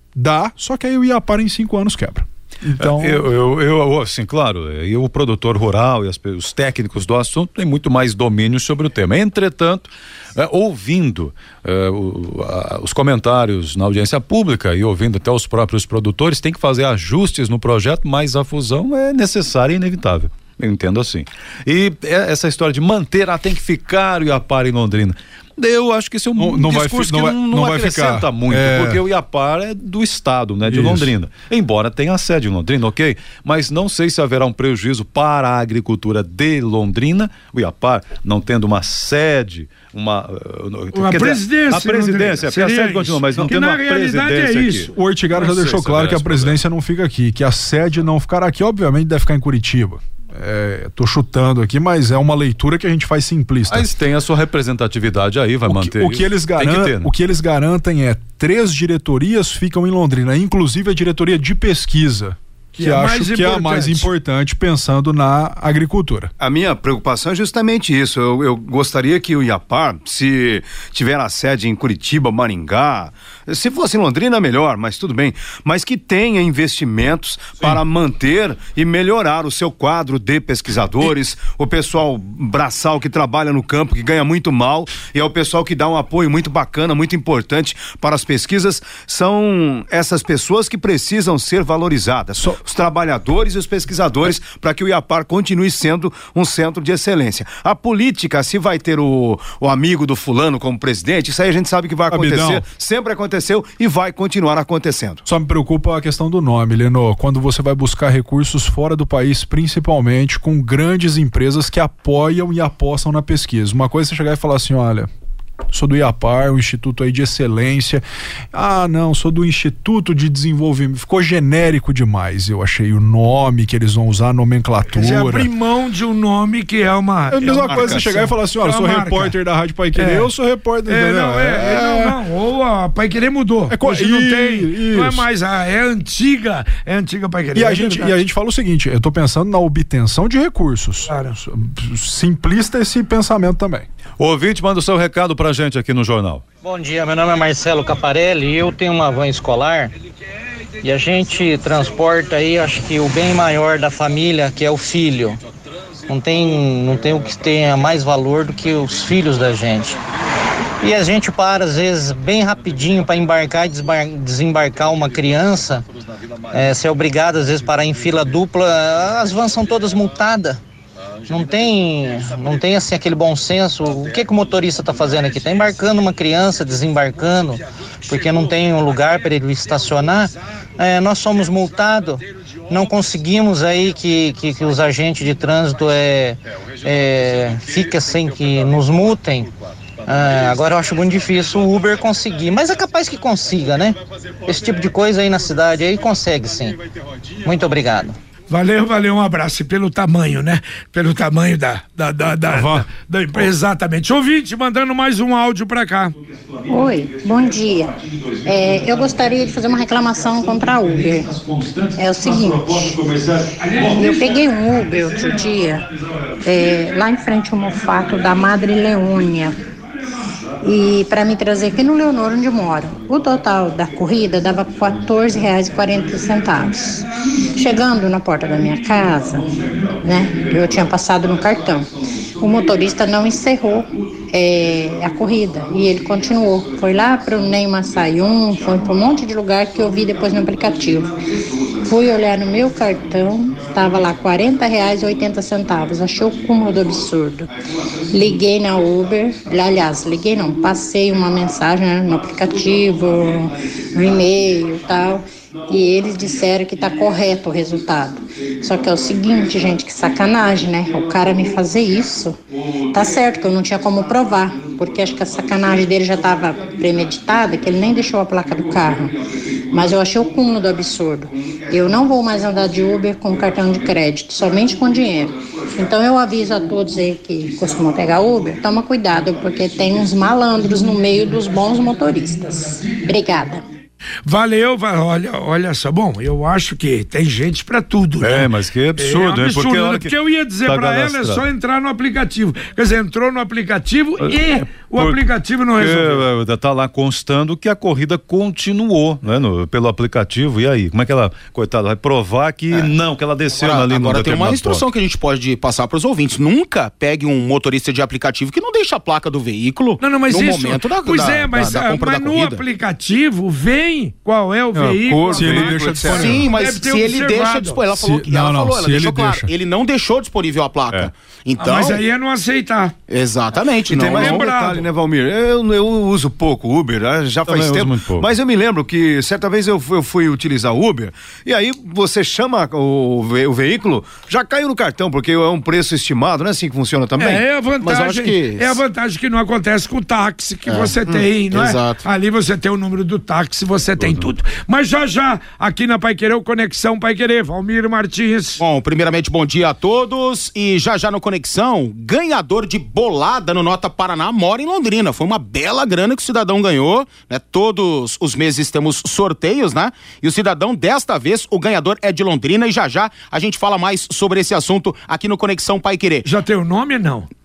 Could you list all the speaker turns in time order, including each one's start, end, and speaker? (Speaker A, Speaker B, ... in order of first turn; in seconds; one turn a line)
Speaker A: 0.1-3.2
Speaker B: 2.8-46.6
Speaker A: 26.4-29.0
Speaker A: 30.7-31.1
Speaker C: 40.9-45.0
Speaker A: 45.0-53.9
Speaker B: 53.7-57.1
Speaker A: 55.7-66.3
Speaker C: 62.8-64.1
Speaker D: 66.4-105.2
Speaker A: 102.1-102.7
Speaker A: 105.3-115.1
Speaker A: 115.7-125.5
Speaker C: 124.9-129.4
Speaker A: 127.3-132.2
Speaker D: 127.7-128.0
Speaker C: 129.9-130.3
Speaker C: 130.9-138.2
Speaker A: 133.7-135.3
Speaker A: 137.6-143.9
Speaker C: 141.1-141.4
Speaker B: 144.2-146.4
Speaker E: 146.6-149.9
Speaker E: 150.8-155.4
Speaker E: 156.1-160.0
Speaker E: 160.8-165.8
Speaker E: 166.5-170.6
Speaker E: 171.3-189.5
Speaker E: 190.1-196.8
Speaker E: 197.4-198.2
Speaker C: 198.5-206.2
Speaker A: 202.5-202.9
Speaker F: 206.7-211.3
Speaker F: 211.9-213.0
Speaker B: 212.9-213.2
Speaker C: 213.6-214.0
Speaker F: 213.9-215.9
Speaker F: 216.4-219.6
Speaker F: 220.6-241.1
Speaker F: 241.8-247.5
Speaker F: 248.1-262.4
Speaker F: 262.9-269.1
Speaker F: 269.7-283.6
Speaker C: 284.2-296.2
Speaker B: 288.2-291.5
Speaker B: 294.2-295.2
Speaker B: 295.8-304.9
Speaker G: 303.5-312.6
Speaker C: 310.0-317.8
Speaker A: 314.8-316.5
Speaker D: 315.0-316.5
Speaker G: 316.1-322.0
Speaker A: 317.9-319.5
Speaker C: 321.6-322.9
Speaker G: 323.1-324.4
Speaker D: 323.9-337.4
Speaker C: 323.9-324.9
Speaker B: 327.5-328.3
Speaker C: 337.2-348.6
Speaker G: 337.8-338.8
Speaker G: 340.7-342.0
Speaker B: 344.0-344.3
Speaker G: 348.6-366.3
Speaker C: 366.2-367.3